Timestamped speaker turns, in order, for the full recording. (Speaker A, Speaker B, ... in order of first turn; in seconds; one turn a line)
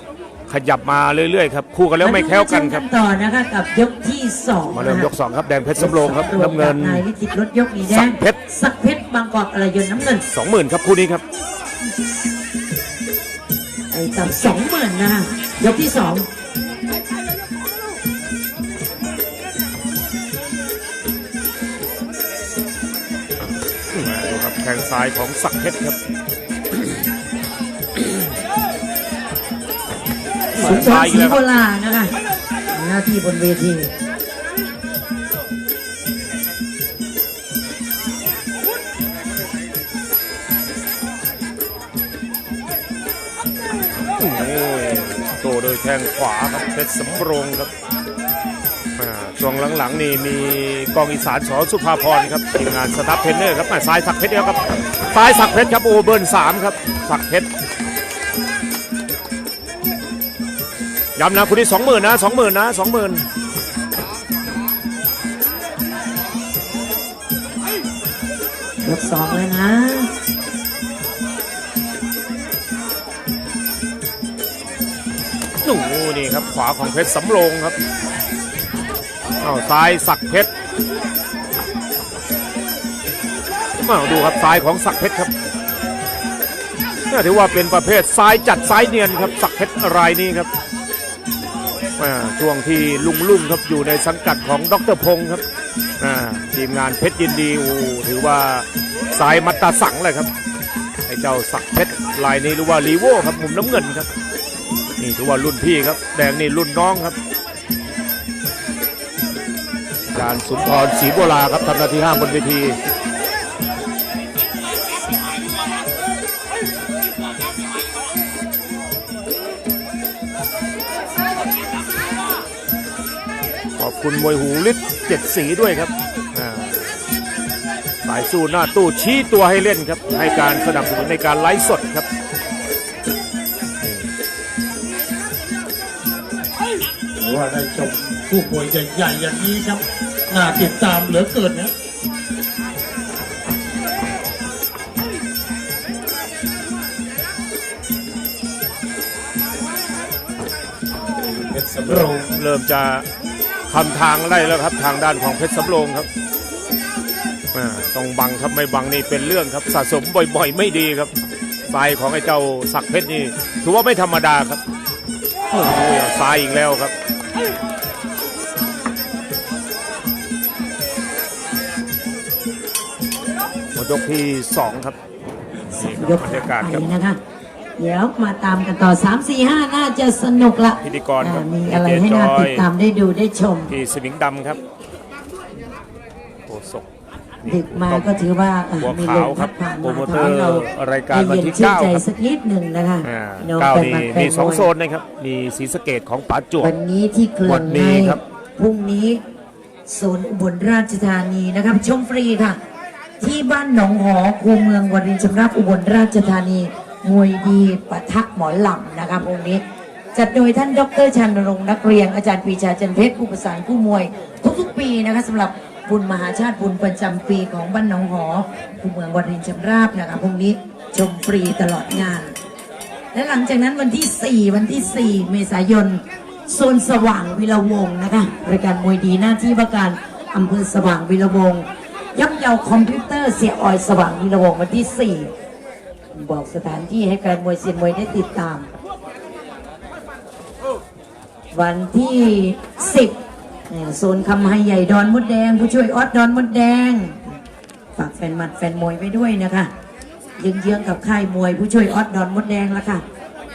Speaker A: 0.5-2.8
Speaker B: 2.0-5.1
Speaker A: 4.7-7.0
Speaker B: 5.8-10.2
Speaker A: 7.9-8.4
Speaker A: 10.2-11.2
Speaker B: 13.9-16.3
Speaker A: 23.9-26.0
Speaker A: 30.5-31.4
Speaker B: 30.6-32.1
Speaker B: 32.7-33.9
Speaker A: 44.2-47.7
Speaker A: 49.0-57.5
Speaker A: 61.1-63.2
Speaker B: 68.8-70.1
Speaker A: 75.6-77.8
Speaker A: 79.4-80.5
Speaker A: 83.8-85.3
Speaker A: 87.1-90.5
Speaker A: 92.0-95.4
Speaker A: 96.0-100.3
Speaker A: 101.1-104.1
Speaker A: 105.0-107.2
Speaker A: 110.1-112.8
Speaker A: 123.8-127.0
Speaker A: 128.0-132.1
Speaker A: 133.8-134.1
Speaker C: 137.2-141.7
Speaker C: 151.2-152.2
Speaker A: 151.8-153.1
Speaker A: 153.7-156.1
Speaker A: 157.5-161.1
Speaker A: 161.7-164.6
Speaker A: 165.5-166.9
Speaker A: 173.7-175.0
Speaker A: 175.7-176.9
Speaker B: 175.7-177.2
Speaker B: 177.8-183.7
Speaker A: 180.8-182.7
Speaker A: 183.7-184.6
Speaker A: 186.5-186.9
Speaker A: 187.4-188.2
Speaker B: 187.4-194.7
Speaker A: 188.8-192.0
Speaker A: 193.0-196.7
Speaker B: 196.6-199.2
Speaker A: 197.4-198.2
Speaker B: 199.9-202.6
Speaker B: 203.2-209.6
Speaker B: 210.1-222.3
Speaker B: 223.1-235.3
Speaker B: 236.1-238.7
Speaker B: 241.5-243.2
Speaker B: 243.7-247.3
Speaker B: 247.9-249.7
Speaker B: 250.4-253.0